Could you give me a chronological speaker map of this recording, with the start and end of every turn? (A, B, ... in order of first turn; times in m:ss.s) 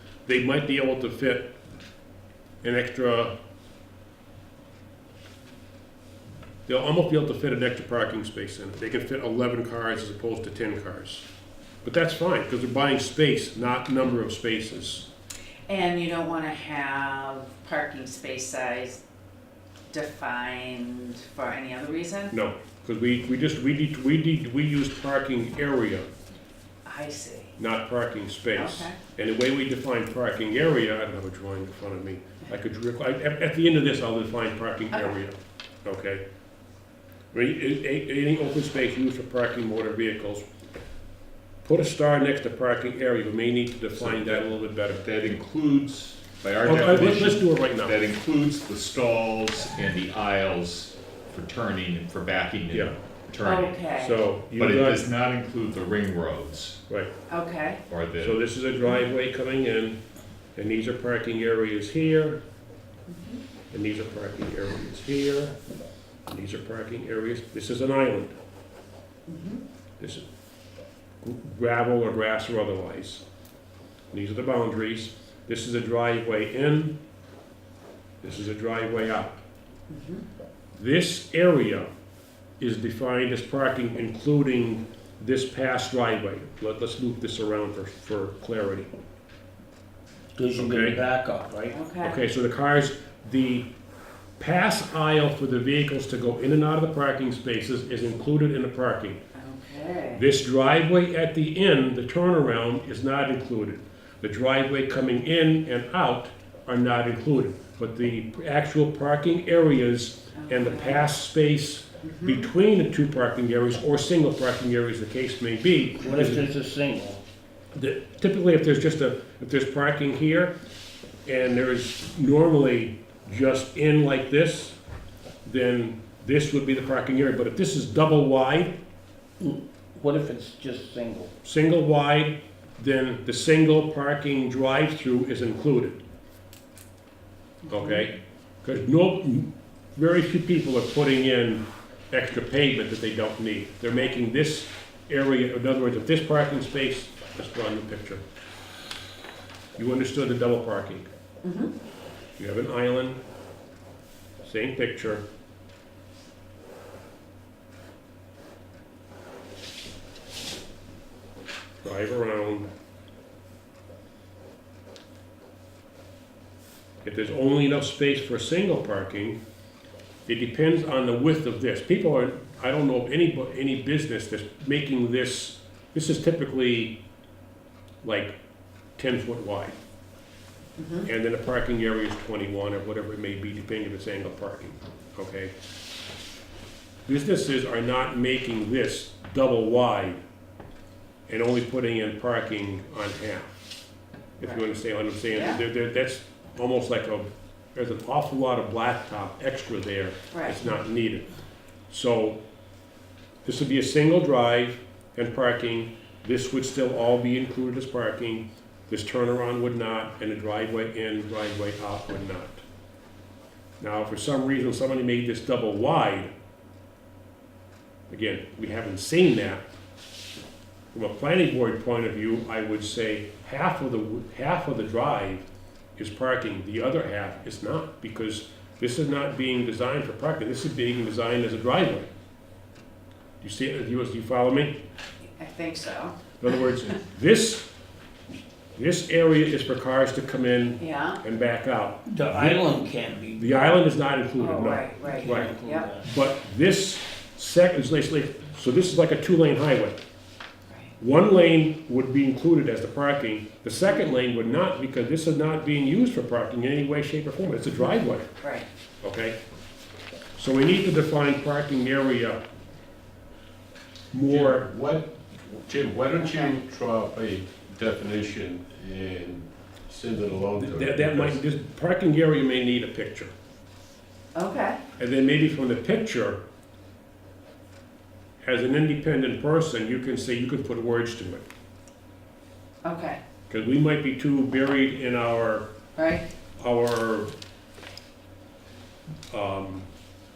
0:00.3-0:01.5 A
0:02.6-0:03.3 A
0:06.7-0:11.2 A
0:11.8-0:15.1 A
0:15.7-0:19.0 B
0:19.9-0:22.3 B
0:22.3-0:26.1 A
0:26.8-0:27.5 B
0:27.6-0:36.2 A
0:28.6-0:29.0 B
0:37.3-0:40.4 A
0:41.6-0:45.1 A
0:43.9-0:53.8 C
0:46.6-0:48.0 A
0:53.4-0:54.2 B
0:54.0-0:55.0 A
0:54.6-0:56.8 C
0:57.3-0:57.8 B
0:57.9-0:58.4 C
0:58.2-1:00.0 A
1:00.6-1:02.4 A
1:03.1-1:03.4 B
1:03.7-1:05.5 A
1:06.3-1:08.4 A
1:09.3-1:09.6 B
1:11.2-1:13.2 A
1:14.1-1:17.0 A
1:18.2-1:19.4 A
1:19.9-1:20.2 B
1:20.8-1:21.9 A
1:22.6-1:28.9 A
1:30.4-1:31.8 D
1:30.6-1:31.0 A
1:31.7-1:32.2 B
1:32.0-1:33.7 A
1:34.4-1:39.2 A
1:39.4-1:40.2 B
1:40.2-1:56.5 A
1:50.4-1:51.0 B
1:52.0-1:52.5 B
1:56.0-1:57.2 D
1:57.8-2:00.5 A
2:01.3-2:04.8 A
2:05.4-2:08.8 A
2:09.4-2:11.3 D
2:11.4-2:16.0 A
2:17.7-2:28.2 A
2:17.7-2:18.1 B
2:29.8-2:31.1 A
2:31.4-2:31.7 B
2:32.4-2:33.2 A
2:34.4-2:35.2 A
2:41.8-2:42.7 A
2:47.0-2:49.4 A
2:50.3-2:57.0 A
2:58.0-2:58.4 A
2:59.0-2:59.8 A
3:00.8-3:01.1 B
3:01.0-3:05.5 A
3:07.1-3:10.2 A
3:11.3-3:13.6 A
3:14.4-3:21.3 A
3:14.4-3:14.7 B
3:15.3-3:15.6 B
3:21.9-3:22.4 A
3:23.4-3:32.6 A
3:33.8-3:36.3 A
3:38.1-3:39.6 A
3:40.9-3:45.5 A
3:46.0-3:52.1 A
3:53.4-3:54.8 A
3:55.4-3:56.2 B
3:56.4-3:57.6 A
3:58.8-4:02.7 A
4:00.8-4:01.2 B
4:02.1-4:03.5 D
4:03.4-4:10.0 A
4:04.4-4:05.9 B
4:05.1-4:06.1 D
4:11.0-4:18.3 A
4:17.8-4:18.7 B
4:19.0-4:19.4 A
4:20.4-4:22.4 A
4:24.1-4:24.7 A
4:24.3-4:31.4 E
4:26.2-4:26.6 B
4:30.5-4:33.3 A
4:34.4-4:34.8 B
4:35.0-4:36.4 A
4:38.4-4:41.4 A
4:42.8-4:43.2 B
4:43.5-4:45.7 A
4:46.0-4:46.2 B
4:46.6-4:47.3 A
4:49.3-4:49.9 A